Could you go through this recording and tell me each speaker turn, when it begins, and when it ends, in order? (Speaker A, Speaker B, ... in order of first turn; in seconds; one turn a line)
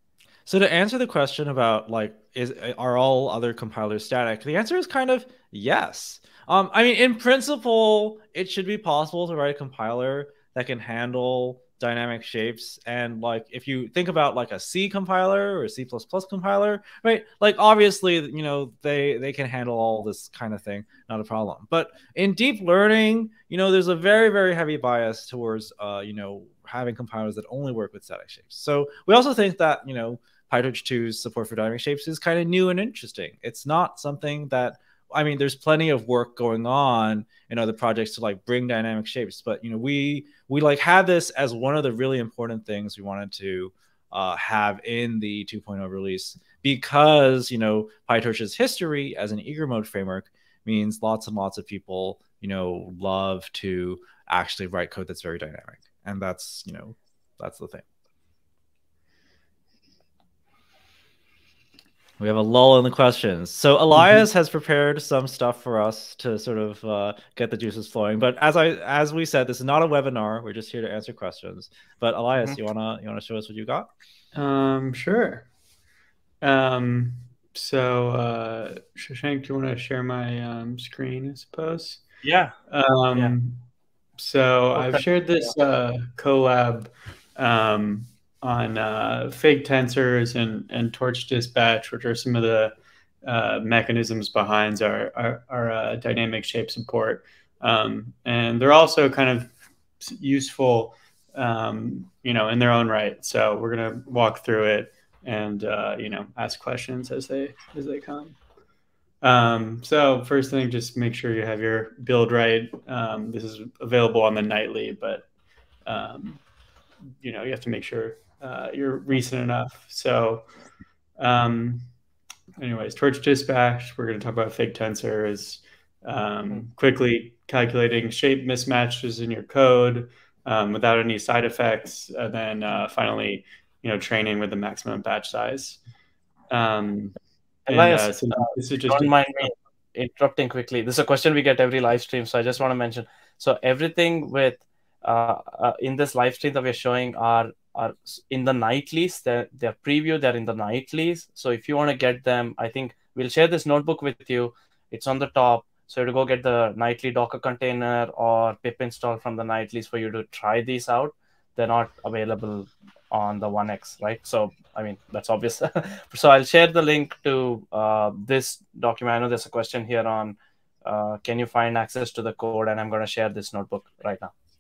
Speaker A: 0.5-57.9
Speaker A: 62.2-73.9
Speaker B: 74.3-75.5
Speaker B: 76.4-82.0
Speaker C: 82.2-82.5
Speaker B: 82.7-83.6
Speaker B: 84.2-108.4
Speaker C: 84.8-85.0
Speaker B: 109.2-115.3
Speaker B: 115.9-116.4
Speaker B: 117.2-120.5
Speaker B: 121.2-121.9
Speaker B: 122.6-135.8
Speaker B: 136.5-139.5
Speaker C: 137.7-174.3